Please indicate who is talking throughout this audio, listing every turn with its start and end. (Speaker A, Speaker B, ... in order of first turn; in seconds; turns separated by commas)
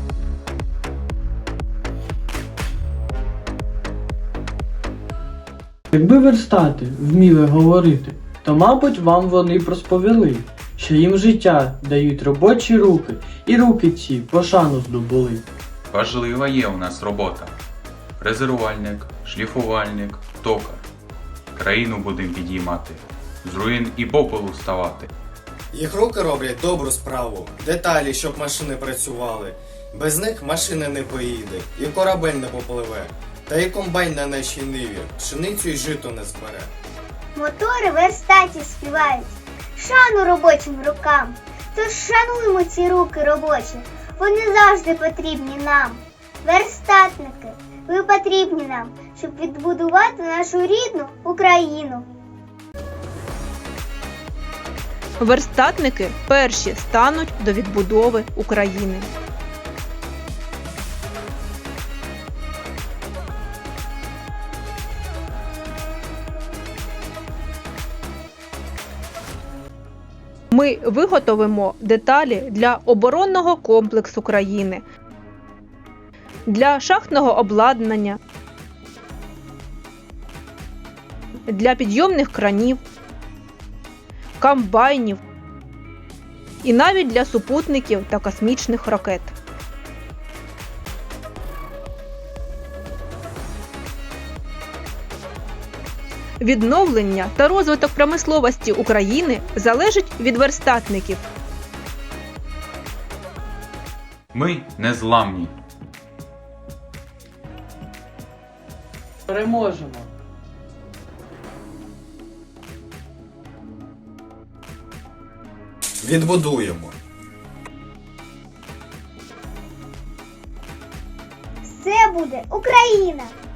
Speaker A: 5.9-15.4, Speaker B: 15.9-17.6, Speaker B: 18.2-20.9, Speaker B: 21.5-25.1, Speaker C: 25.7-36.7, Speaker D: 37.3-52.1, Speaker E: 55.2-59.1, Speaker E: 70.5-74.8, Speaker E: 76.5-78.2, Speaker E: 81.5-82.8, Speaker E: 84.4-85.2, Speaker E: 86.6-89.3, Speaker E: 96.4-101.3, Speaker B: 104.3-105.5, Speaker A: 109.3-110.1, Speaker C: 116.0-116.9, Speaker D: 121.7-123.3